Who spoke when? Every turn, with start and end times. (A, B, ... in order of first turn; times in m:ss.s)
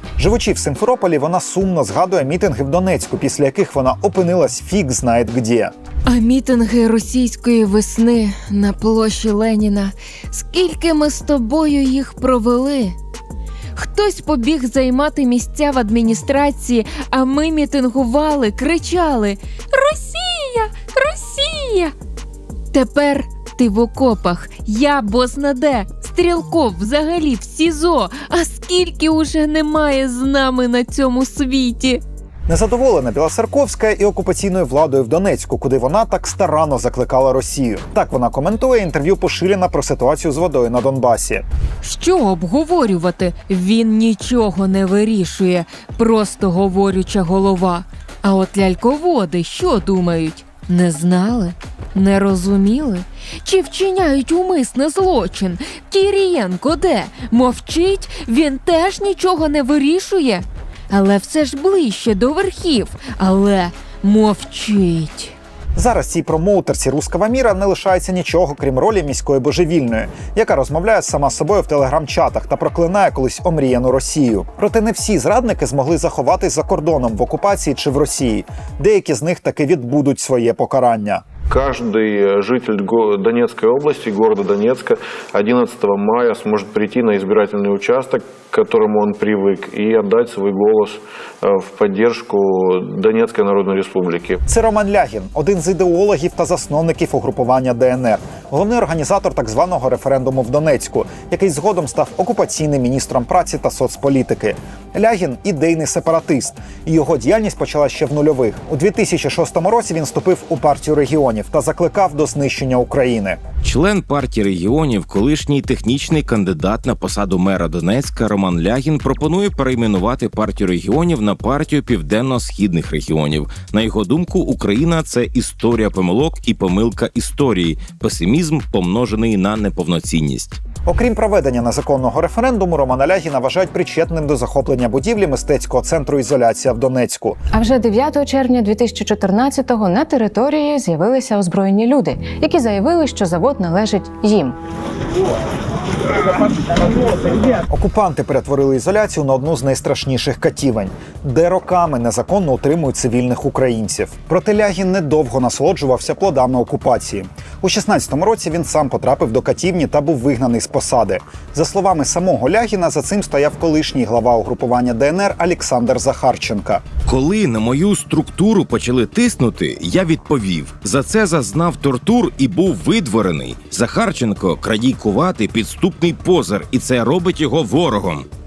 0:00.2-0:05.7 A
0:06.1-0:13.0 B
0:13.8-0:21.9 B
0:22.7-0:32.0 B
0:32.5-0:41.5 A
0:41.8-1:05.4 B
1:05.8-1:21.2 A
1:21.5-1:34.4 C
1:34.5-1:53.4 A
1:53.6-2:10.6 D
2:10.9-2:17.4 A
2:17.5-2:24.6 E
2:27.7-2:46.8 A
2:47.0-2:58.3 D